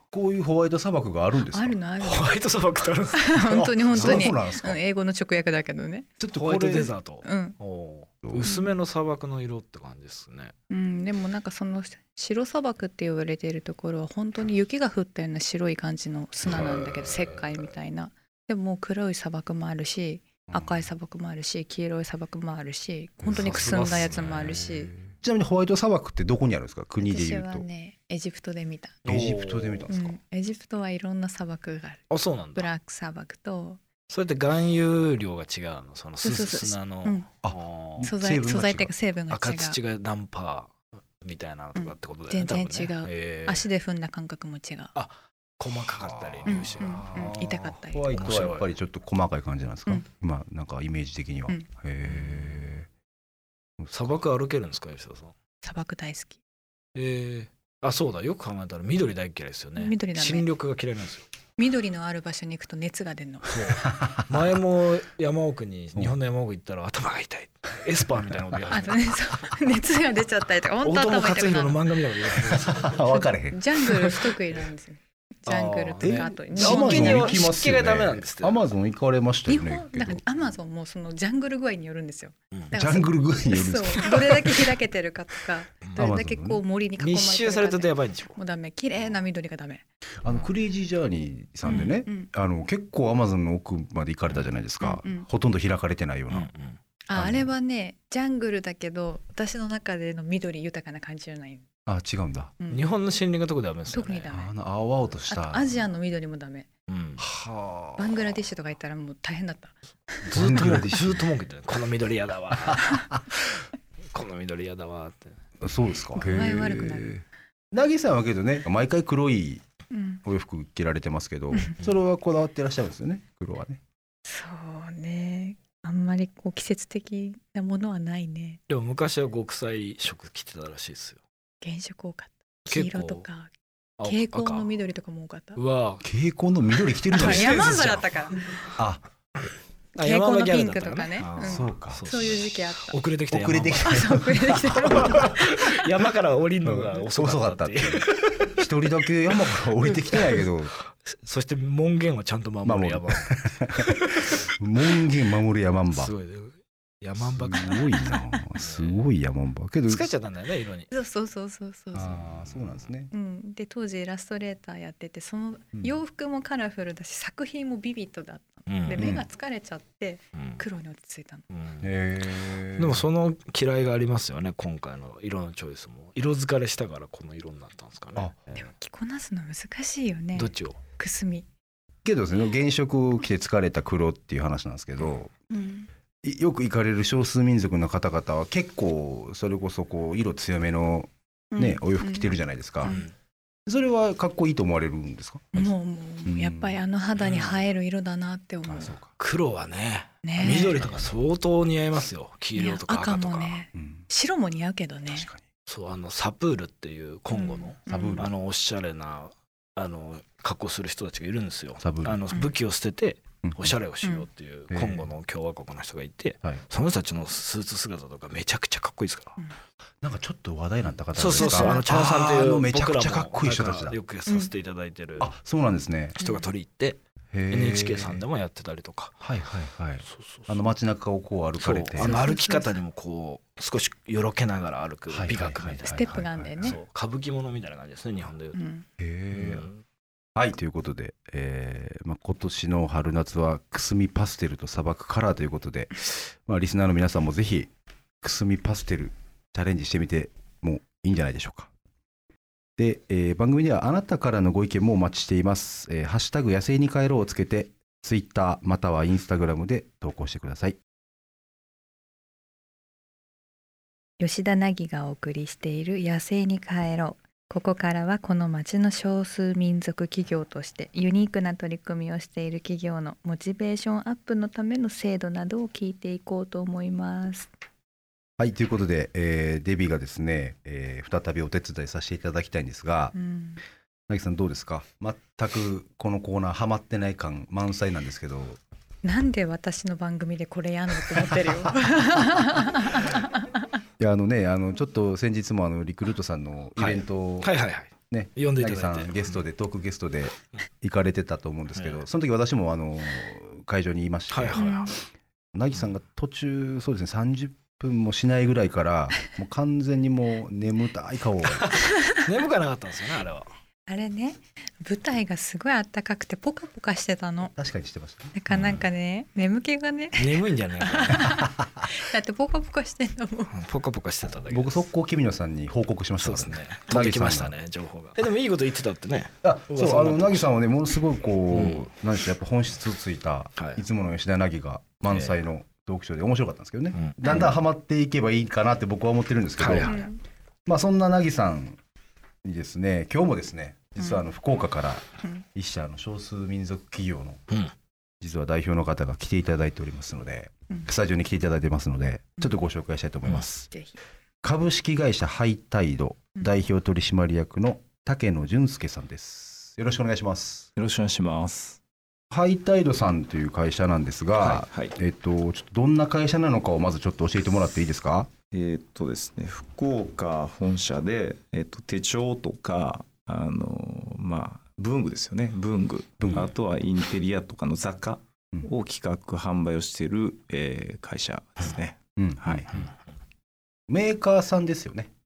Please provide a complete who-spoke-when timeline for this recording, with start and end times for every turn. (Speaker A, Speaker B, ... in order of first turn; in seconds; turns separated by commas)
Speaker A: 0.1-1.8, Speaker B: 1.5-2.4, Speaker C: 2.0-4.3, Speaker B: 3.2-6.1, Speaker A: 3.9-4.8, Speaker A: 6.2-6.9, Speaker C: 6.3-10.5, Speaker B: 7.2-7.6, Speaker A: 8.2-8.5, Speaker B: 8.4-8.7, Speaker B: 10.7-24.9, Speaker C: 16.5-17.4, Speaker A: 20.5-20.9, Speaker C: 23.3-24.6, Speaker A: 23.3-27.6, Speaker B: 27.0-29.0, Speaker C: 29.0-29.9, Speaker A: 29.0-30.2, Speaker B: 29.9-33.8, Speaker C: 32.1-32.7, Speaker C: 34.1-38.1, Speaker B: 36.2-37.3, Speaker A: 37.4-38.9, Speaker B: 38.0-39.8, Speaker C: 39.3-43.6, Speaker B: 41.8-44.9, Speaker C: 44.9-48.7, Speaker A: 46.4-52.9, Speaker B: 46.5-48.1, Speaker C: 52.0-52.7, Speaker A: 53.8-54.1, Speaker C: 53.9-55.3, Speaker B: 55.6-56.4, Speaker C: 57.0-61.2, Speaker B: 59.8-60.5, Speaker B: 61.6-63.5, Speaker C: 63.5-69.2, Speaker A: 63.8-64.3, Speaker B: 68.7-71.8, Speaker C: 70.8-73.0, Speaker A: 72.4-73.6, Speaker B: 73.1-77.4, Speaker C: 75.5-78.6, Speaker A: 76.0-80.2, Speaker B: 79.5-90.5, Speaker A: 82.7-84.7, Speaker C: 85.8-86.1, Speaker A: 86.0-86.6, Speaker C: 87.0-88.4, Speaker A: 90.2-96.5, Speaker B: 91.7-92.3, Speaker B: 94.8-95.3, Speaker C: 96.3-96.8, Speaker B: 97.1-101.7, Speaker A: 97.1-97.5, Speaker A: 101.9-102.5, Speaker B: 102.6-102.8, Speaker C: 102.7-104.3, Speaker B: 103.9-104.5, Speaker A: 104.3-105.8, Speaker B: 105.3-106.7, Speaker C: 106.9-107.2, Speaker A: 107.2-108.2, Speaker B: 108.0-110.2, Speaker C: 110.2-113.4, Speaker A: 110.3-111.3, Speaker A: 112.7-113.2, Speaker C: 114.1-115.3, Speaker A: 115.6-119.6, Speaker B: 116.2-117.2, Speaker B: 119.9-120.2, Speaker A: 120.2-123.8, Speaker B: 124.2-128.6, Speaker C: 128.7-131.2, Speaker B: 131.6-135.6, Speaker C: 132.7-133.2, Speaker C: 134.0-134.7, Speaker C: 135.6-136.0, Speaker A: 136.0-137.5, Speaker C: 137.2-138.1, Speaker B: 137.2-138.5, Speaker A: 138.8-139.0, Speaker C: 139.9-143.9, Speaker B: 140.0-143.0, Speaker A: 141.4-142.1, Speaker A: 143.3-144.7, Speaker B: 143.8-145.7, Speaker C: 144.7-148.7, Speaker A: 146.6-150.7, Speaker C: 149.6-150.5, Speaker C: 151.1-154.5, Speaker A: 152.6-153.9, Speaker A: 154.4-156.1, Speaker C: 155.9-159.1, Speaker A: 157.2-160.1, Speaker C: 159.9-160.9, Speaker B: 160.9-162.2, Speaker A: 161.9-163.1, Speaker B: 163.1-171.5, Speaker C: 168.7-169.1, Speaker A: 169.0-169.3, Speaker C: 170.3-170.6, Speaker C: 171.5-171.9, Speaker A: 171.8-173.1, Speaker C: 172.8-178.6, Speaker B: 178.6-181.5, Speaker C: 180.3-180.8, Speaker A: 182.1-185.3, Speaker B: 185.5-185.9, Speaker A: 186.2-193.0, Speaker B: 191.5-193.1, Speaker C: 192.9-193.1, Speaker A: 193.7-195.7, Speaker B: 195.5-198.9, Speaker A: 196.3-196.8, Speaker C: 197.2-197.6, Speaker A: 198.7-199.1, Speaker C: 199.2-203.6, Speaker B: 200.2-200.8, Speaker A: 200.4-200.8, Speaker B: 202.6-205.3, Speaker A: 203.7-204.1, Speaker A: 205.1-205.4, Speaker C: 205.7-219.4, Speaker B: 207.3-208.2, Speaker A: 207.9-208.3, Speaker A: 211.8-212.2, Speaker A: 213.4-213.8, Speaker A: 214.7-215.1, Speaker A: 220.0-224.0, Speaker C: 221.2-225.3, Speaker B: 221.4-221.9, Speaker A: 225.2-226.2, Speaker C: 226.2-229.2, Speaker B: 226.2-226.5, Speaker A: 227.3-228.2, Speaker A: 229.2-232.2, Speaker C: 230.1-230.6, Speaker C: 231.6-238.6, Speaker B: 232.0-232.8, Speaker A: 235.1-236.8, Speaker B: 235.8-236.8, Speaker B: 238.6-238.8, Speaker A: 239.0-239.7, Speaker C: 239.3-239.8, Speaker A: 240.4-247.7, Speaker A: 248.2-251.7, Speaker A: 252.8-260.8, Speaker B: 264.2-277.5, Speaker A: 278.4-283.1, Speaker B: 283.1-283.6, Speaker A: 284.1-288.6, Speaker B: 289.0-293.4, Speaker A: 294.0-297.5, Speaker C: 296.8-299.4, Speaker A: 298.1-304.9, Speaker C: 301.7-302.0, Speaker C: 304.3-304.9, Speaker B: 304.6-304.9, Speaker A: 305.5-311.7, Speaker C: 311.5-313.5, Speaker B: 313.9-317.5, Speaker A: 317.6-318.3, Speaker B: 318.3-323.5, Speaker C: 318.5-318.9, Speaker C: 320.2-321.4, Speaker C: 323.5-324.8, Speaker A: 324.5-327.6, Speaker C: 326.2-330.4, Speaker A: 329.4-340.1, Speaker C: 331.5-331.9, Speaker C: 333.6-333.8, Speaker C: 335.1-335.4, Speaker C: 336.9-337.5, Speaker C: 339.6-340.0, Speaker B: 339.9-340.2, Speaker A: 340.7-341.8, Speaker A: 342.4-347.4, Speaker B: 344.0-344.2, Speaker A: 348.2-353.7, Speaker B: 353.7-354.0, Speaker A: 354.4-360.7, Speaker D: 360.8-361.8, Speaker A: 362.3-368.3, Speaker D: 364.4-365.0, Speaker D: 368.5-382.9, Speaker A: 376.2-376.5, Speaker A: 382.2-382.8, Speaker A: 383.9-385.1